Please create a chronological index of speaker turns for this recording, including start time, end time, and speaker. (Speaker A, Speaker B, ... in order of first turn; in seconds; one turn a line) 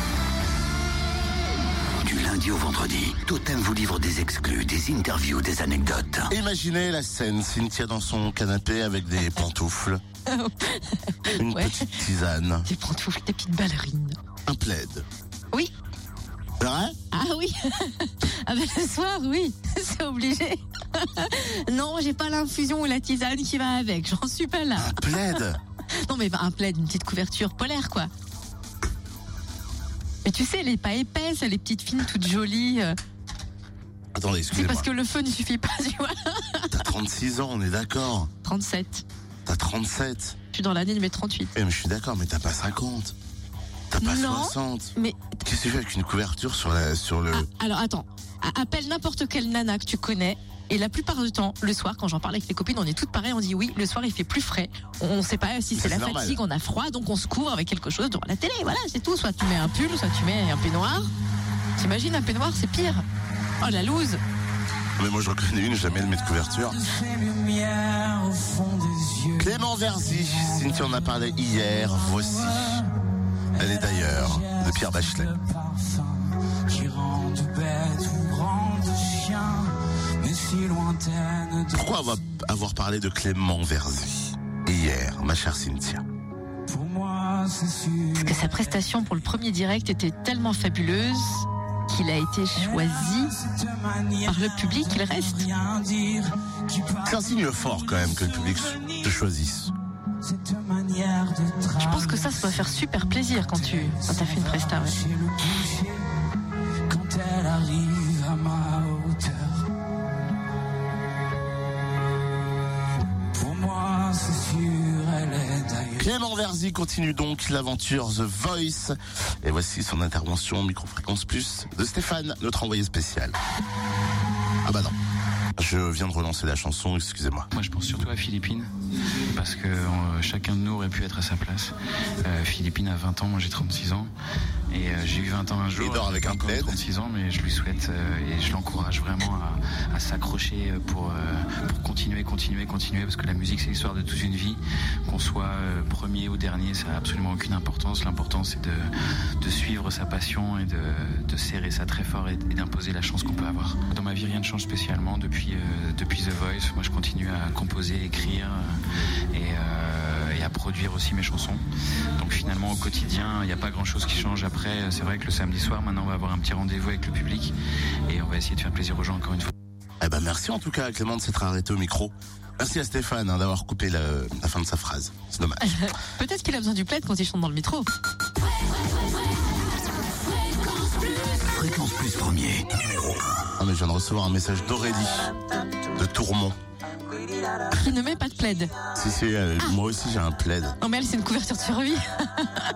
Speaker A: 2.0-6.3
Speaker B: 6.3-10.0
Speaker C: 10.3-11.9
Speaker B: 11.3-12.7
Speaker C: 12.7-14.2
Speaker B: 14.5-15.1
Speaker B: 16.6-17.0
Speaker C: 17.1-25.4
Speaker B: 24.8-25.6
Speaker C: 26.0-28.1
Speaker C: 30.2-33.0
Speaker B: 34.1-34.9
Speaker C: 34.5-36.9
Speaker B: 36.7-38.3
Speaker C: 38.4-39.0
Speaker B: 39.5-40.4
Speaker C: 40.5-41.5
Speaker B: 41.5-43.1
Speaker B: 43.9-44.9
Speaker C: 44.0-45.4
Speaker B: 45.4-47.5
Speaker C: 47.3-61.1
Speaker B: 55.8-56.4
Speaker C: 61.8-63.0
Speaker C: 63.6-64.2
Speaker B: 65.0-66.8
Speaker D: 66.9-69.5
Speaker B: 69.4-72.9
Speaker D: 70.3-71.1
Speaker B: 73.6-75.3
Speaker D: 73.6-81.8
Speaker B: 81.7-86.0
Speaker D: 86.7-88.4
Speaker C: 88.2-93.4
Speaker D: 92.8-97.0
Speaker C: 94.2-95.5
Speaker B: 97.0-99.7
Speaker D: 100.2-102.7
Speaker C: 101.8-105.0
Speaker D: 103.5-106.1
Speaker D: 106.9-109.7
Speaker D: 113.3-116.0
Speaker B: 116.0-123.4
Speaker B: 124.6-125.0
Speaker B: 125.6-127.5
Speaker E: 127.5-128.7
Speaker E: 129.3-134.1
Speaker E: 134.7-158.8
Speaker B: 135.8-136.8
Speaker E: 159.3-161.6
Speaker E: 162.2-167.6
Speaker E: 168.1-169.5
Speaker B: 170.0-175.9
Speaker C: 175.6-177.9
Speaker A: 181.5-182.7
Speaker B: 183.6-185.3
Speaker B: 185.9-186.6
Speaker C: 187.7-188.7
Speaker B: 188.9-190.8
Speaker C: 190.8-192.5